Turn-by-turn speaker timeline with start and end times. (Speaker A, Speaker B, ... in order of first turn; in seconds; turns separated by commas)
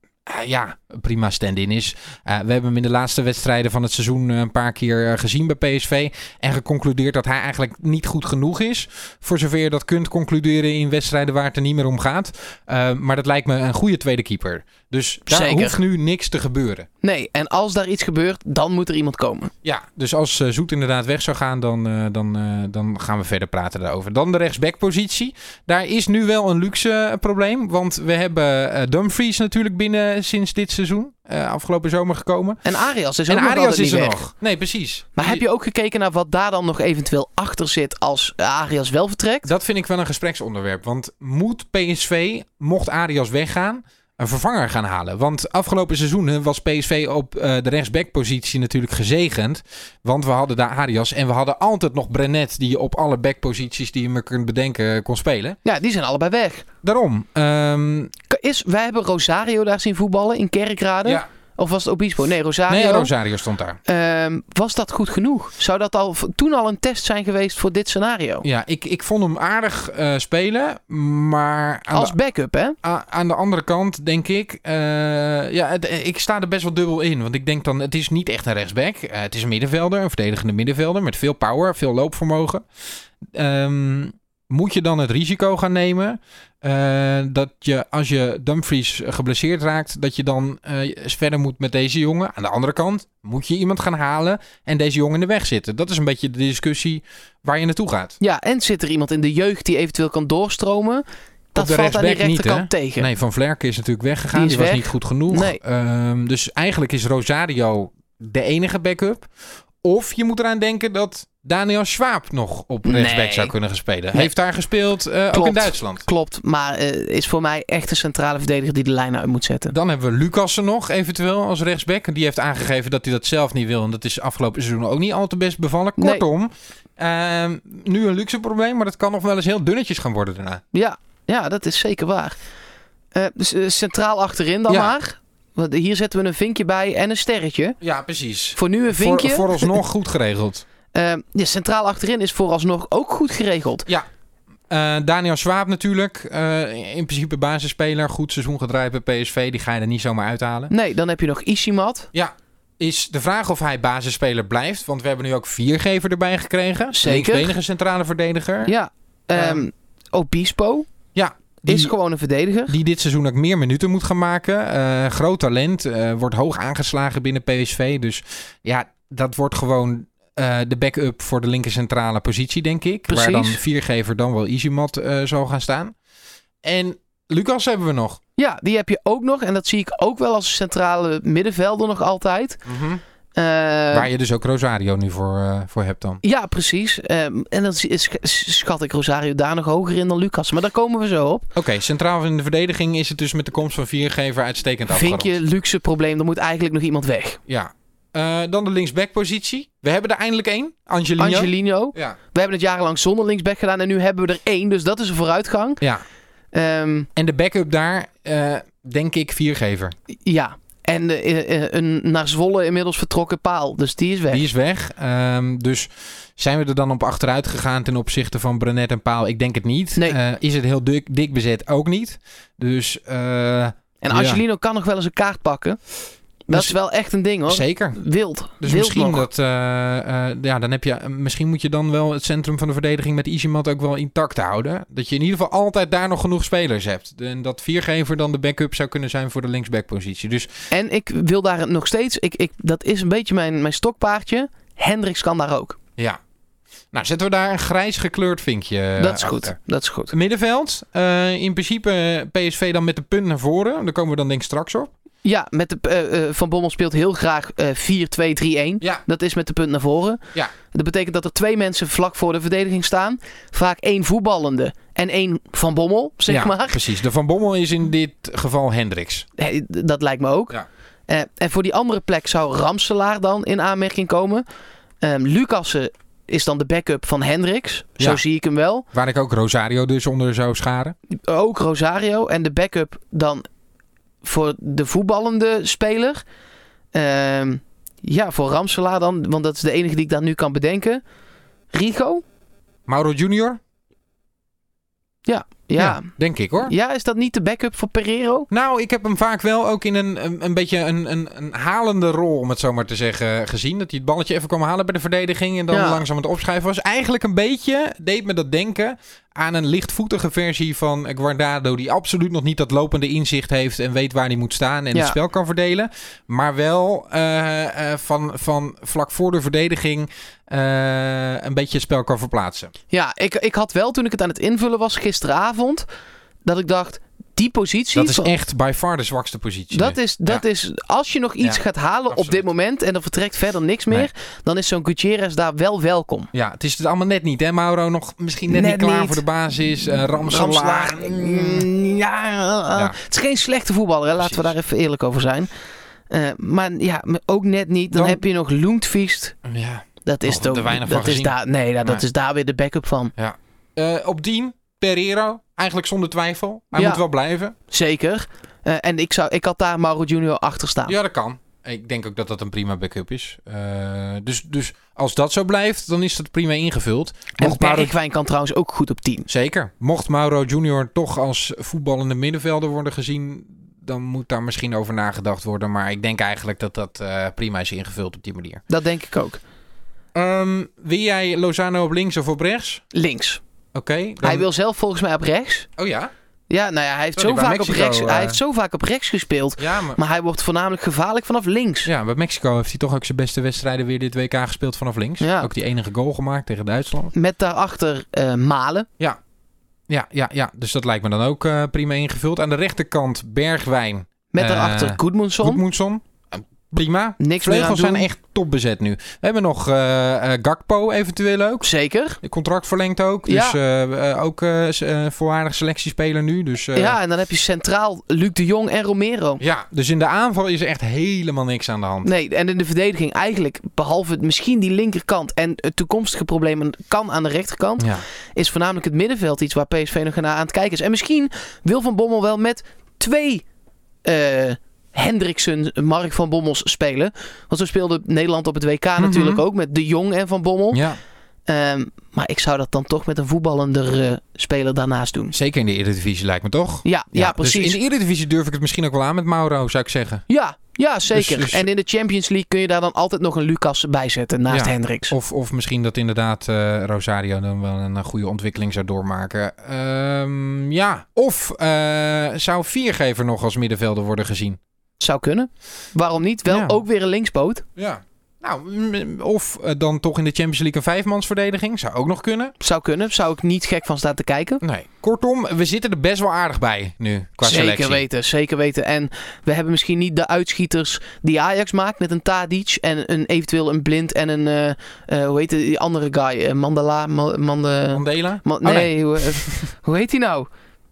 Speaker A: 0.3-16.9, Speaker B: 15.3-15.8, Speaker B: 17.0-19.5, Speaker A: 19.6-32.6, Speaker B: 32.6-34.2, Speaker A: 33.3-35.4, Speaker B: 35.2-39.5, Speaker A: 39.5-55.6, Speaker B: 55.6-56.7, Speaker A: 56.8-58.1, Speaker B: 58.3-63.1, Speaker A: 62.7-63.8, Speaker B: 63.9-68.5, Speaker A: 68.4-72.2, Speaker B: 71.9-72.8, Speaker A: 72.8-82.6, Speaker A: 83.3-98.2, Speaker B: 98.2-101.0, Speaker B: 101.5-103.1, Speaker A: 101.5-109.3, Speaker B: 104.3-105.6, Speaker A: 109.8-116.0, Speaker B: 112.8-113.5, Speaker B: 115.3-119.8, Speaker A: 119.7-130.6, Speaker B: 126.0-126.2, Speaker B: 130.7-132.4, Speaker B: 133.2-137.8, Speaker A: 134.7-134.9, Speaker A: 137.8-140.7, Speaker B: 138.6-139.8, Speaker B: 140.9-143.9, Speaker A: 144.7-150.7, Speaker B: 150.7-152.1, Speaker A: 152.1-158.7, Speaker B: 156.9-157.5, Speaker B: 158.7-160.9, Speaker A: 159.3-159.7, Speaker A: 161.2-161.9, Speaker B: 161.7-162.8, Speaker A: 162.7-175.9, Speaker B: 173.1-173.6, Speaker A: 176.6-178.2, Speaker B: 178.4-182.6, Speaker A: 182.7-183.0, Speaker B: 183.3-184.1, Speaker A: 183.9-186.2, Speaker B: 186.2-191.5, Speaker A: 191.6-195.4, Speaker B: 194.9-197.4, Speaker A: 197.5-202.2, Speaker B: 201.2-205.8, Speaker B: 206.5-207.1, Speaker A: 207.2-209.9, Speaker B: 210.3-214.4, Speaker A: 214.3-224.4, Speaker B: 224.0-225.8, Speaker B: 226.5-229.3, Speaker A: 227.5-228.0, Speaker A: 228.6-240.5, Speaker B: 240.7-245.8, Speaker A: 246.9-249.6, Speaker B: 249.0-250.1, Speaker A: 250.1-254.9, Speaker B: 255.2-266.8, Speaker A: 266.3-269.3, Speaker B: 269.4-274.4, Speaker B: 275.0-278.9, Speaker A: 278.9-280.9, Speaker B: 281.1-283.4, Speaker B: 284.2-286.2, Speaker B: 286.9-291.0, Speaker B: 291.7-292.2, Speaker A: 292.9-293.6, Speaker B: 295.3-296.1, Speaker A: 295.8-296.7, Speaker B: 296.6-298.5, Speaker A: 298.5-322.7, Speaker B: 305.7-306.0, Speaker B: 322.9-325.9, Speaker B: 326.4-328.3, Speaker A: 327.9-330.4, Speaker B: 329.7-336.3, Speaker A: 331.4-332.4, Speaker A: 336.3-341.7, Speaker B: 338.5-339.2, Speaker B: 340.2-345.5, Speaker A: 344.2-344.6, Speaker B: 346.1-349.4, Speaker A: 347.9-348.2, Speaker A: 349.4-352.0, Speaker B: 350.1-353.1, Speaker A: 353.2-357.5, Speaker B: 356.8-357.0, Speaker B: 357.7-360.9, Speaker A: 360.9-367.9, Speaker B: 367.4-369.3, Speaker A: 369.3-378.6, Speaker B: 378.7-379.4, Speaker A: 380.1-382.8, Speaker B: 382.9-383.4, Speaker A: 383.7-384.5, Speaker B: 384.2-385.7, Speaker A: 385.8-386.1, Speaker B: 386.5-391.9, Speaker A: 387.2-388.4, Speaker A: 389.6-390.0, Speaker A: 391.9-397.1, Speaker B: 395.2-395.5, Speaker B: 397.1-398.9, Speaker A: 399.9-411.7, Speaker B: 404.3-405.6, Speaker B: 407.2-408.1, Speaker B: 411.6-412.2, Speaker A: 412.2-417.0, Speaker B: 413.3-413.6, Speaker B: 416.8-419.4, Speaker A: 419.4-422.1, Speaker B: 422.0-433.4, Speaker A: 427.8-428.0, Speaker B: 434.1-440.8, Speaker A: 439.0-439.4, Speaker A: 440.7-441.0, Speaker B: 441.5-445.3, Speaker A: 445.3-450.2, Speaker B: 446.9-447.8, Speaker B: 450.3-455.1, Speaker A: 451.1-451.7, Speaker A: 454.5-464.6, Speaker B: 465.0-467.6, Speaker A: 466.5-466.8, Speaker A: 467.8-472.5, Speaker B: 472.6-474.6, Speaker A: 474.6-478.0, Speaker B: 477.4-490.5, Speaker A: 487.9-489.7